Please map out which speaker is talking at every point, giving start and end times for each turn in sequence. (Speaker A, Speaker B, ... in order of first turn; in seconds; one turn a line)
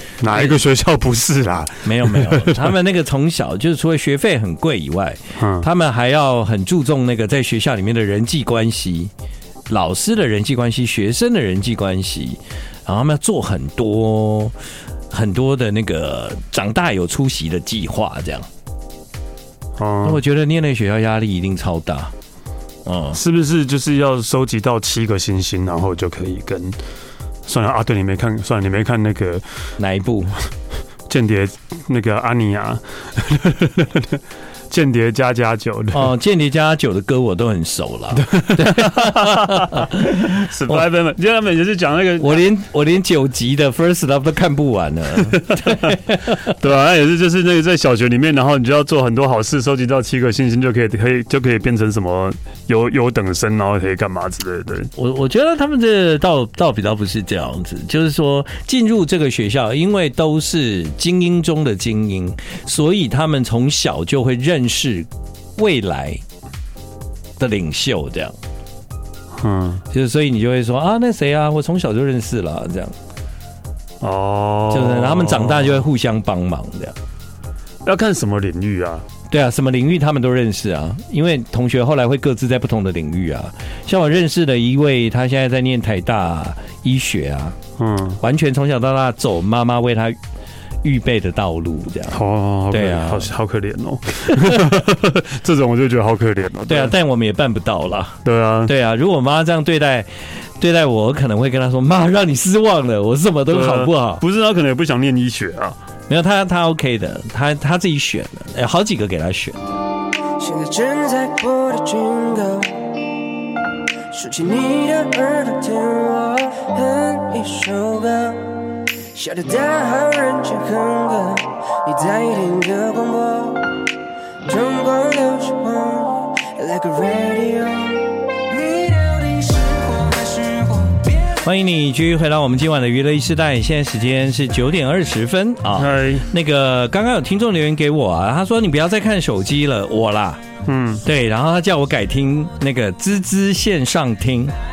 Speaker A: 0.2-2.7
Speaker B: 0.3-0.6
Speaker B: 1.9-9.1
Speaker A: 5.4-5.7
Speaker B: 9.7-14.5
Speaker B: 15.1-18.5
Speaker A: 19.8-20.2
Speaker B: 20.0-22.1
Speaker B: 22.9-23.2
Speaker A: 23.1-26.8
Speaker A: 27.5-29.4
Speaker B: 29.8-30.4
Speaker A: 31.1-36.1
Speaker B: 35.9-40.9
Speaker A: 38.1-42.5
Speaker B: 42.2-46.5
Speaker A: 45.3-54.9
Speaker B: 55.0-66.2
Speaker B: 67.4-68.3
Speaker A: 69.4-69.8
Speaker B: 69.9-73.0
Speaker A: 74.0-75.8
Speaker B: 74.7-77.0
Speaker A: 77.8-79.1
Speaker B: 79.3-87.6
Speaker A: 87.8-88.2
Speaker B: 88.2-90.2
Speaker B: 90.8-92.2
Speaker A: 92.1-96.9
Speaker B: 92.7-93.3
Speaker B: 94.3-94.7
Speaker B: 96.7-104.2
Speaker A: 98.2-98.7
Speaker A: 103.5-105.8
Speaker B: 106.1-109.7
Speaker C: 110.4-113.0
Speaker C: 114.1-123.8
Speaker C: 124.5-131.4
Speaker B: 131.4-140.4
Speaker A: 135.8-136.3
Speaker A: 140.7-141.0
Speaker B: 141.0-144.6